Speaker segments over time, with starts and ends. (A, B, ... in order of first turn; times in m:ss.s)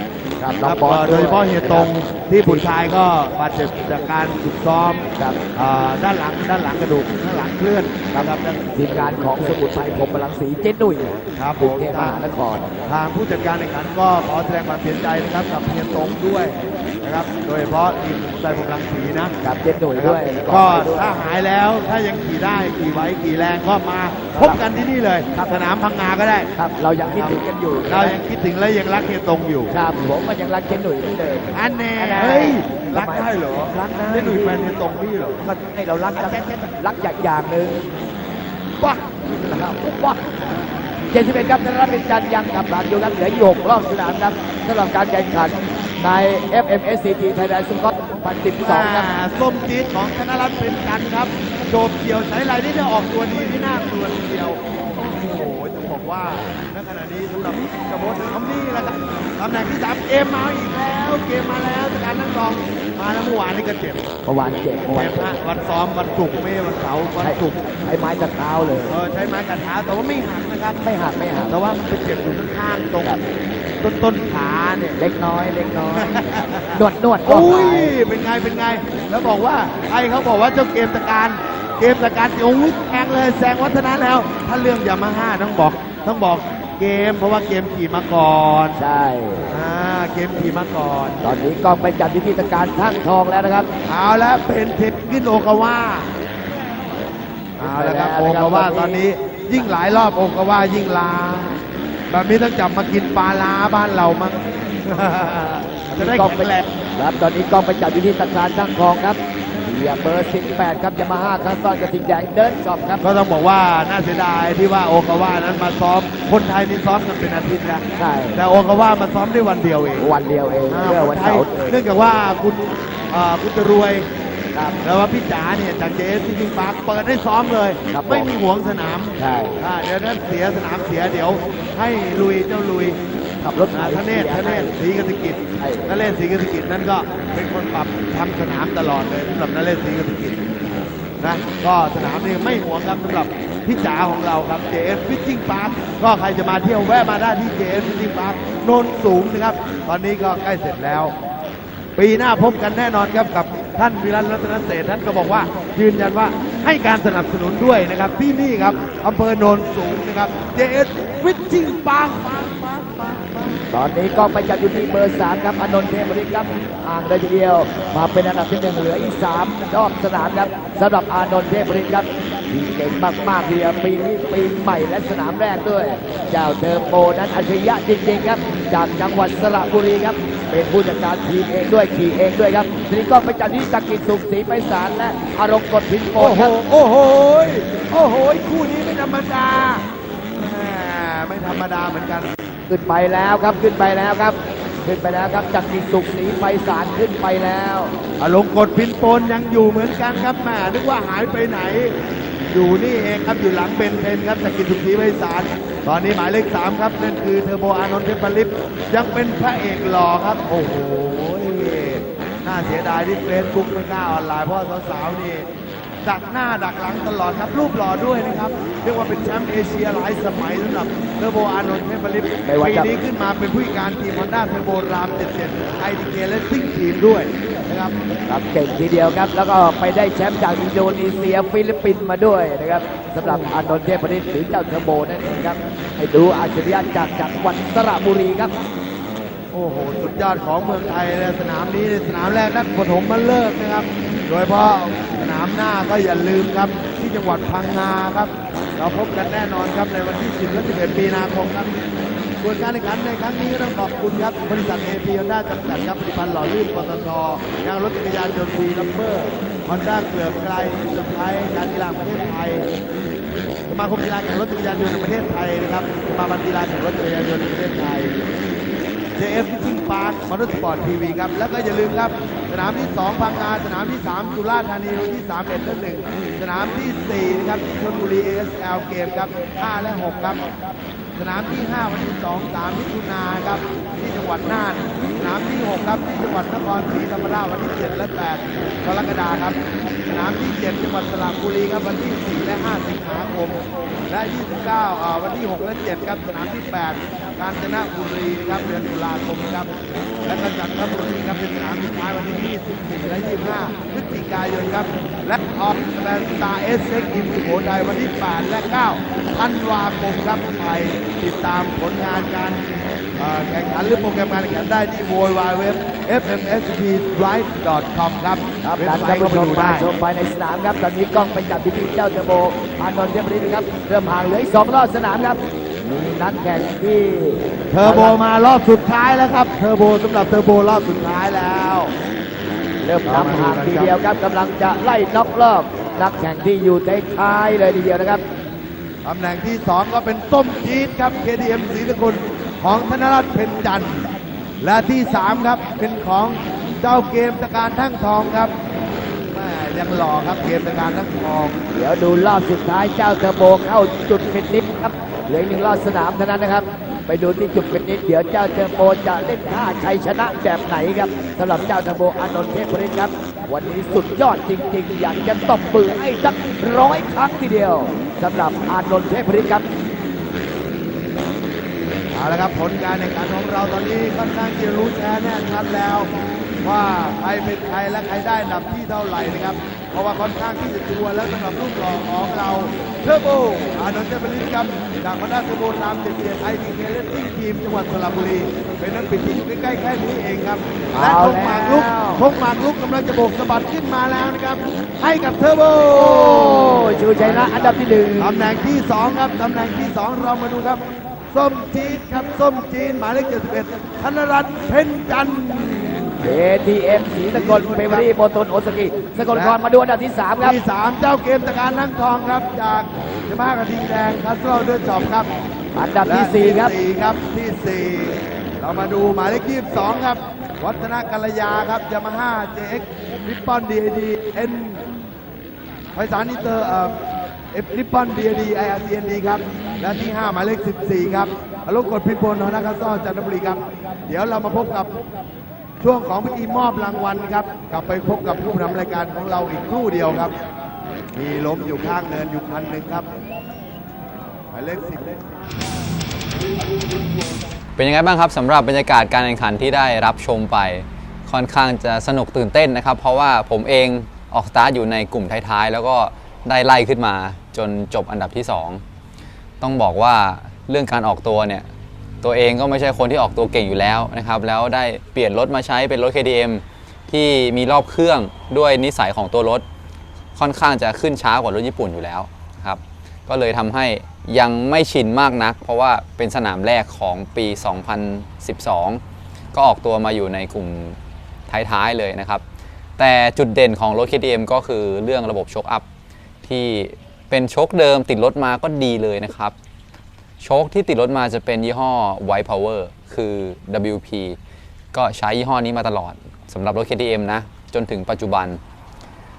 0:00.4-0:01.9 A
0:00.6-0:09.6 B
0:08.1-0:12.7 A
0:11.4-0:12.2 B
0:12.8-0:19.3 B
0:19.4-0:21.2 A
0:19.9-0:29.7 B
0:24.3-0:24.6 A
0:26.5-0:28.2 A
0:29.7-0:34.7 A
0:31.5-0:35.4 B
0:35.4-0:37.8 A
0:36.1-0:36.6 B
0:38.9-0:40.4 A
0:41.1-0:49.1 A
0:48.6-1:04.1 B
1:04.2-1:05.4 A
1:04.8-1:07.7 B
1:07.2-1:09.0 A
1:08.9-1:10.9 B
1:10.8-1:11.6 A
1:11.5-1:13.2 B
1:13.8-1:15.0 B
1:15.0-1:17.9 A
1:16.0-1:28.8 B
1:28.8-1:29.5 A
1:29.5-1:31.2 B
1:31.2-1:33.7 A
1:33.8-1:36.1 B
1:37.6-1:46.7 B
1:37.6-1:39.0 A
1:46.0-1:53.0 A
1:53.0-2:00.1 B
1:58.0-1:58.4 A
2:00.0-2:01.8 A
2:00.7-2:04.1 B
2:04.5-2:04.8 A
2:04.8-2:13.0 B
2:07.9-2:08.3 A
2:09.2-2:09.6 A
2:13.4-2:14.7 A
2:13.7-2:20.5 B
2:15.6-2:15.9 A
2:21.2-2:31.1 B
2:32.0-2:43.7 B
2:43.7-3:06.5 A
3:06.2-3:12.3 B
3:12.7-3:17.9 A
3:18.2-3:35.5 B
3:36.0-3:48.0 B
3:42.4-3:43.0 A
3:48.3-3:58.5 A
3:59.5-4:11.7 B
4:12.4-4:22.7 B
4:23.7-4:28.2 B
4:29.2-4:40.4 B
4:41.2-4:53.6 B
4:54.1-4:59.7 B
5:00.2-5:12.6 B
5:13.2-5:19.9 B
5:18.6-5:28.2 A
5:27.7-5:31.9 B
5:32.8-5:38.2 A
5:33.0-5:34.0 B
5:39.0-5:44.0 B
5:44.6-5:48.5 B
5:49.3-5:51.6 B
5:51.7-6:09.6 A
6:12.1-6:16.1 B
6:16.6-6:40.8 B
6:30.9-6:32.2 A
6:35.9-6:38.4 A
6:41.3-6:46.3 B
6:46.2-6:50.6 A
6:47.3-6:48.0 B
6:49.3-6:49.6 B
6:50.4-6:55.3 B
6:55.7-6:56.7 A
6:56.0-7:04.8 B
7:05.9-7:07.0 B
7:07.5-7:14.9 B
7:15.8-7:20.3 B
7:21.1-7:23.1 B
7:24.5-7:25.2 B
7:27.8-7:38.8 C
7:39.6-7:41.6 C
7:42.2-7:49.6 C
7:50.4-7:59.0 C
7:59.5-8:01.0 C
8:01.5-8:02.4 C
8:03.0-8:05.8 C
8:06.4-8:09.5 C
8:10.4-8:14.4 C
8:14.9-8:18.6 C